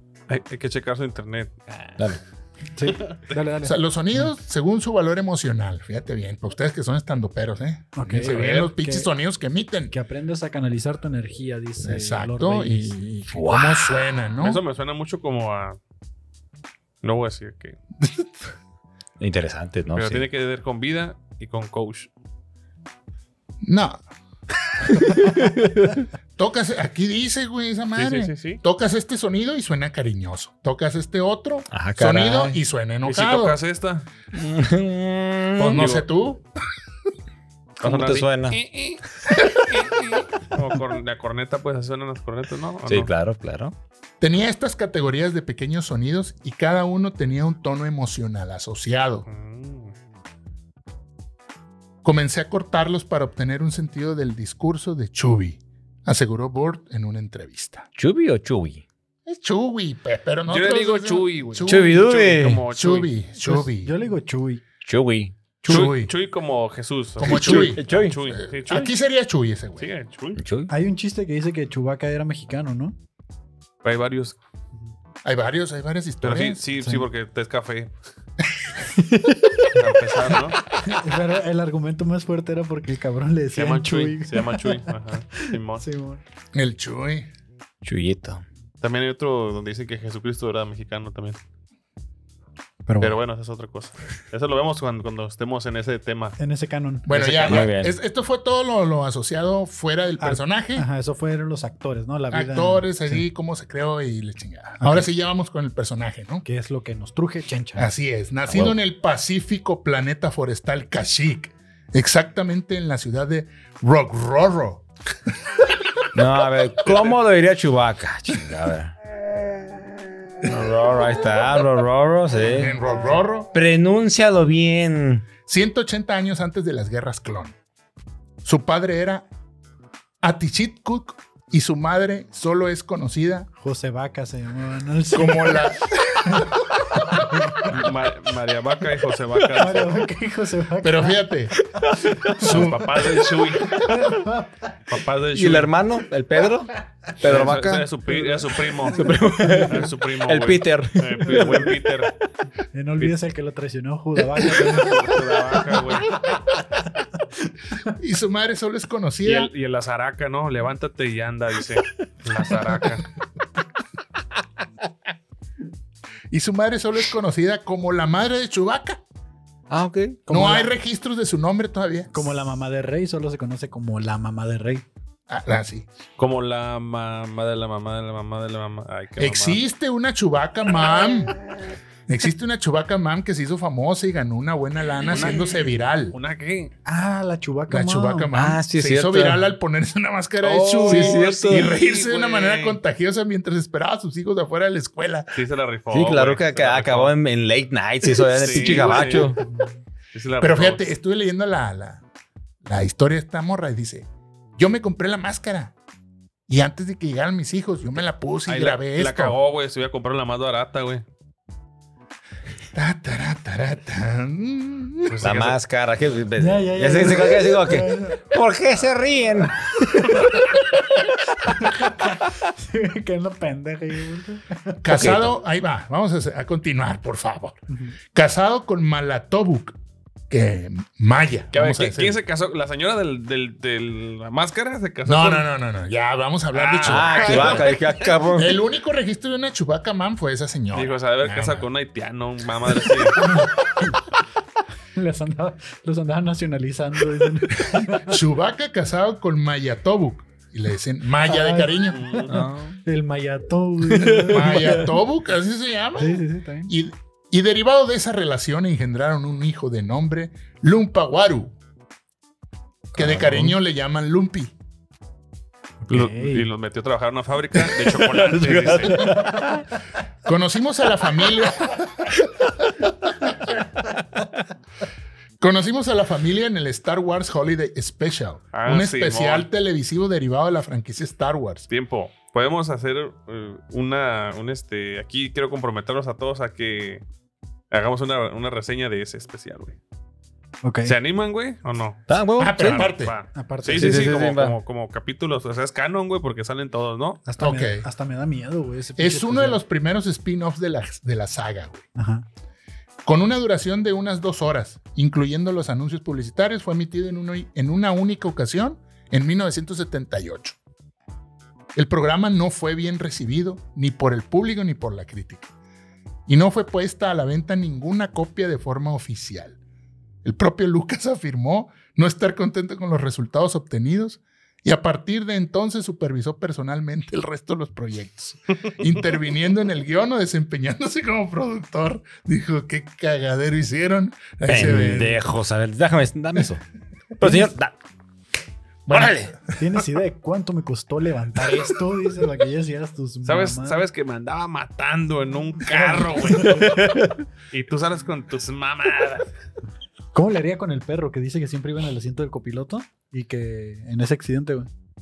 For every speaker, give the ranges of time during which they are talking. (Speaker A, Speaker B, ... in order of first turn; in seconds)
Speaker A: 0.3-1.9, 14.4-15.8, 17.0-17.8, 19.9-22.1, 27.9-28.6, 33.0-34.0, 35.7-36.0, 37.8-43.1, 49.3-49.9, 60.5-63.1, 65.7-68.9, 69.8-70.4, 73.8-74.4, 76.2-78.0, 79.7-80.6, 83.5-85.8, 88.8-91.4, 93.0-96.4, 137.7-140.0, 142.4-144.2, 144.9-145.7, 147.2-152.1, 154.5-156.2, 159.2-163.1, 176.2-179.6, 185.1-186.7, 190.4-192.8, 195.3-197.2, 198.1-199.3, 200.1-200.8, 208.5-211.0, 215.1-215.6, 231.5-235.5, 236.5-238.1, 240.7-243.3, 251.9-252.4, 265.9-269.2, 278.5-279.5, 281.7-287.0, 287.7-289.8, 290.8-292.0, 292.6-297.2, 343.2-346.8, 347.5-349.2
Speaker B: 2.8-3.8, 8.0-9.1, 9.9-13.0, 63.4-64.6, 70.7-73.0, 80.8-84.9, 85.5-86.2, 92.8-93.2, 96.4-97.6, 100.2-103.2, 106.4-107.9, 133.6-135.7, 136.2-137.9, 139.5-141.2, 143.8-144.6, 148.1-149.9, 151.4-151.7, 152.7-156.4, 170.3-170.7, 172.1-174.8, 186.8-188.3, 216.4-218.2, 221.5-225.1, 227.7-227.9, 243.2-244.0, 244.9-248.2, 251.2-254.9, 256.0-256.7, 265.8-266.5, 290.6-290.9, 293.3-294.2, 297.2-299.6, 301.9-302.2, 339.6-343.8, 345.6-346.8, 350.1-354.7
Speaker C: 3.6-9.9, 11.8-14.6, 18.0-18.3, 23.6-24.0, 26.4-33.6, 35.6-36.4, 44.2-49.2, 52.0-57.9, 59.2-63.9, 65.7-66.1, 67.2-69.9, 75.2-76.6, 86.5-87.3, 97.0-100.9, 102.3-106.4, 107.8-114.8, 122.5-123.5, 125.5-127.5, 128.4-129.2, 130.2-133.5, 135.1-136.5, 140.8-141.6, 142.4-143.1, 157.9-159.5, 166.3-169.0, 170.3-172.1, 175.3-175.8, 179.2-181.4, 182.1-186.2, 187.7-195.4, 200.4-202.0, 202.6-205.7, 206.5-209.3, 212.7-215.2, 224.8-227.6, 228.1-229.7, 230.3-232.2, 235.1-237.7, 238.3-241.7, 248.1-252.0, 254.3-261.5, 262.9-264.5, 270.2-272.1, 275.4-281.7, 292.4-293.1, 297.4-297.9, 299.0-301.9, 303.0-310.6, 311.7-315.5, 316.2-319.6, 320.2-335.2, 338.9-339.1
Speaker D: 13.3-14.0, 19.2-20.2, 25.2-26.0, 31.7-32.6, 34.3-35.9, 37.8-38.6, 42.9-43.7, 58.0-58.8, 61.6-62.6, 64.8-65.9, 67.2-68.2, 70.3-70.7, 79.0-79.7, 87.8-88.4, 97.1-98.0, 108.5-108.8, 116.1-118.9, 120.4-122.8, 123.5-125.3, 141.8-142.6, 145.3-147.9, 148.8-151.7, 169.7-170.2, 188.3-189.4, 190.8-191.7, 195.9-199.4, 215.2-220.3, 224.9-225.3, 236.8-238.6, 252.3-252.8, 253.8-254.8, 263.0-263.5, 268.3-269.6, 292.1-292.9, 293.7-294.6, 334.4-336.6, 337.2-337.7, 338.9-339.4, 346.3-347.1